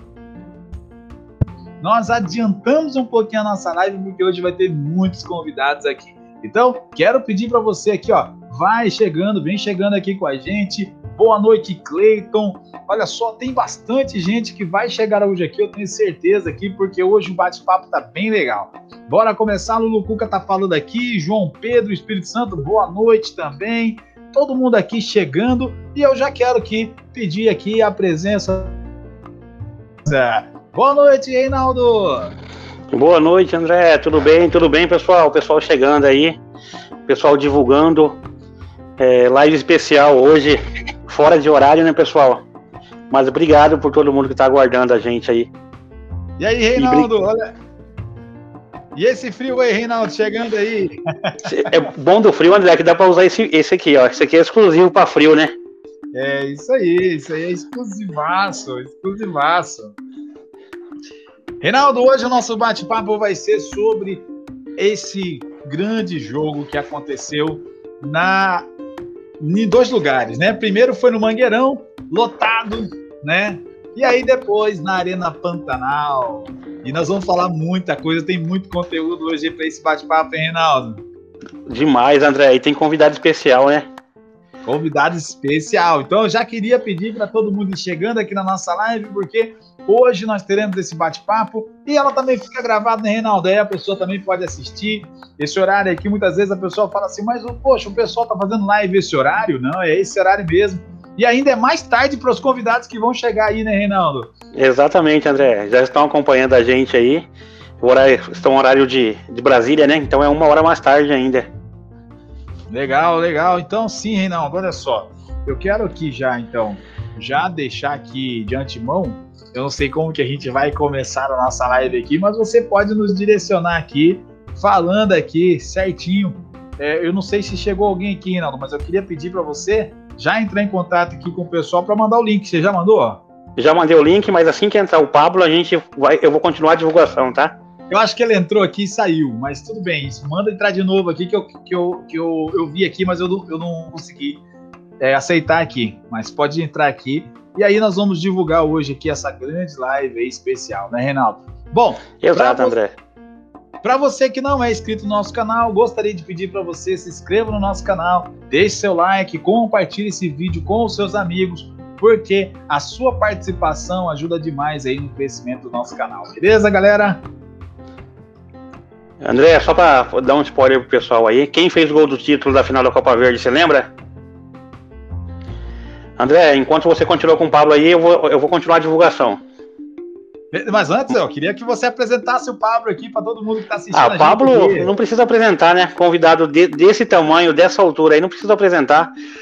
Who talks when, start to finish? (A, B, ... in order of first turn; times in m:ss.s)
0:01.8-0:28.8 A
0:30.0-0:32.3 A
0:32.9-0:36.4 B
0:37.1-0:38.2 B
0:39.0-0:42.4 B
0:43.1-0:45.5 B
0:46.4-0:47.4 A
0:46.8-0:47.1 B
0:48.9-0:51.4 A
0:51.4-0:55.5 B
0:56.1-1:00.0 A
1:01.6-1:08.7 A
1:09.4-1:21.0 A
1:21.7-1:23.9 B
1:24.6-1:44.3 A
1:44.5-1:47.3 B
1:47.8-1:51.5 B
1:52.7-2:13.2 A
2:13.6-2:17.6 B
2:17.9-2:24.4 A
2:25.0-2:32.8 A
2:32.2-2:32.9 B
2:33.8-2:47.2 A
2:49.2-2:53.9 B
2:56.2-2:59.4 B
3:00.5-3:04.9 A
3:03.9-3:09.1 B